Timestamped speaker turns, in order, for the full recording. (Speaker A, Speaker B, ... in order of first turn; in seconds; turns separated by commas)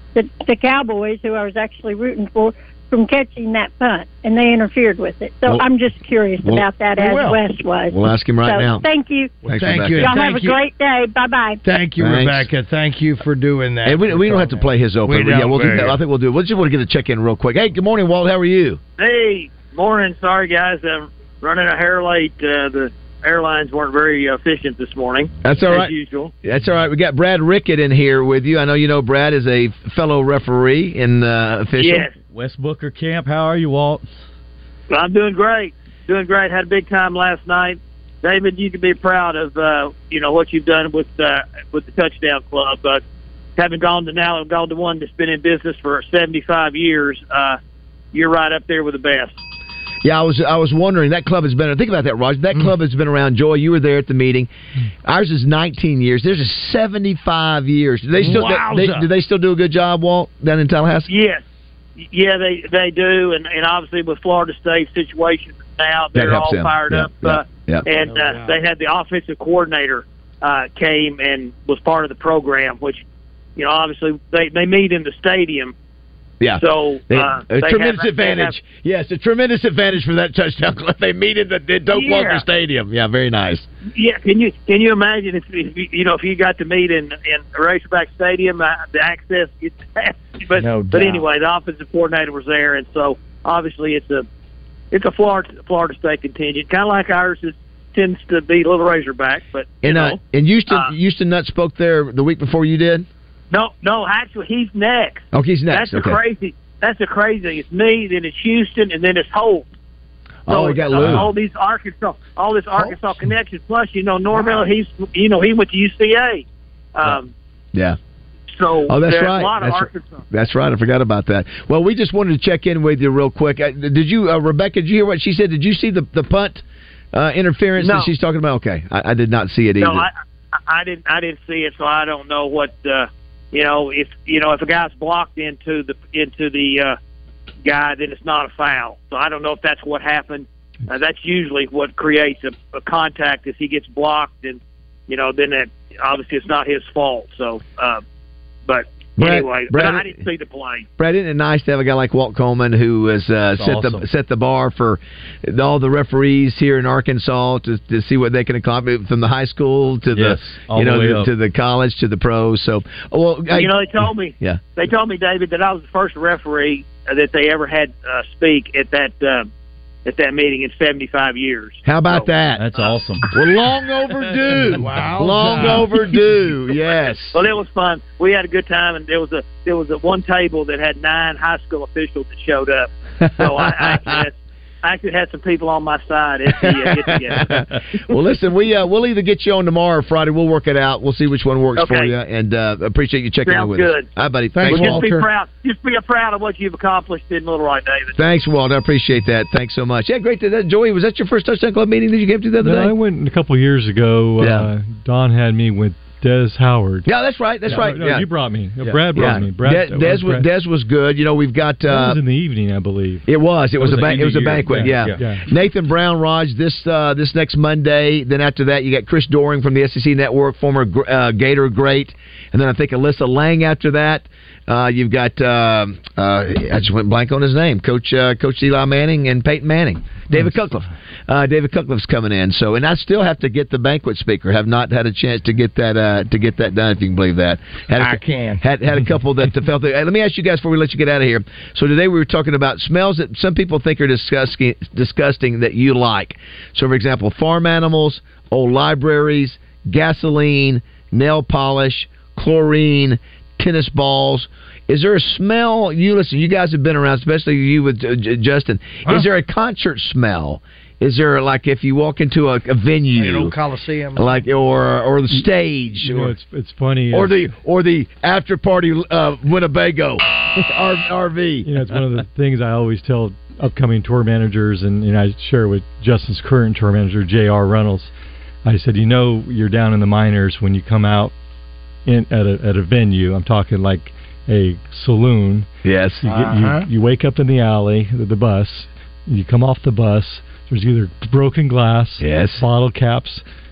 Speaker A: 0.1-11.6, Speaker B: 7.0-7.4, Speaker C: 7.9-8.8, Speaker C: 9.4-10.2, Speaker B: 9.6-10.6, Speaker B: 11.6-16.0, Speaker C: 12.0-12.5, Speaker C: 13.8-18.8, Speaker D: 19.0-26.3, Speaker C: 25.4-32.1, Speaker D: 31.8-32.1, Speaker E: 32.3-34.0, Speaker D: 34.9-43.0, Speaker D: 43.6-47.6, Speaker D: 48.1-49.4, Speaker C: 50.0-54.5, Speaker C: 55.0-61.1, Speaker B: 58.2-59.1, Speaker D: 61.1-61.4, Speaker D: 62.0-73.0, Speaker C: 66.1-67.8, Speaker B: 68.0-68.6, Speaker D: 73.5-75.7, Speaker C: 76.4-83.7, Speaker D: 76.5-78.5, Speaker D: 81.9-82.4, Speaker D: 83.9-94.2, Speaker B: 90.7-91.2, Speaker D: 94.9-100.9, Speaker C: 99.8-103.1, Speaker D: 103.5-109.7, Speaker C: 105.3-106.2, Speaker C: 110.5-111.3, Speaker D: 110.5-116.4, Speaker B: 112.7-113.1, Speaker B: 114.3-114.6, Speaker D: 117.0-117.3, Speaker D: 118.5-120.2, Speaker C: 118.9-130.1, Speaker D: 129.8-130.1, Speaker D: 130.7-136.9, Speaker D: 137.6-148.0, Speaker D: 148.7-150.9, Speaker C: 149.2-150.2, Speaker C: 151.0-164.6, Speaker E: 153.6-154.0, Speaker E: 160.1-161.3, Speaker D: 163.5-169.5, Speaker D: 170.1-172.8, Speaker C: 171.8-172.6, Speaker E: 172.6-173.2, Speaker C: 173.3-177.4, Speaker B: 174.7-176.2, Speaker D: 177.3-187.5, Speaker C: 183.2-184.2, Speaker C: 186.5-195.1, Speaker D: 191.8-192.1, Speaker D: 193.4-194.1, Speaker B: 194.5-195.3, Speaker D: 194.7-198.1, Speaker C: 198.2-202.9, Speaker F: 202.6-207.1, Speaker C: 204.4-204.7, Speaker C: 207.1-208.3, Speaker F: 207.7-210.4, Speaker C: 209.1-212.2, Speaker F: 211.9-213.2, Speaker C: 213.3-263.5, Speaker E: 213.8-215.2, Speaker F: 214.7-215.4, Speaker B: 238.0-238.6, Speaker B: 263.1-264.4, Speaker C: 264.1-266.3, Speaker F: 266.0-267.5, Speaker C: 267.1-271.7, Speaker F: 271.6-278.1, Speaker F: 278.6-281.3, Speaker F: 282.1-285.7, Speaker C: 285.8-286.2, Speaker F: 286.2-293.4, Speaker B: 286.3-286.9, Speaker C: 292.2-292.6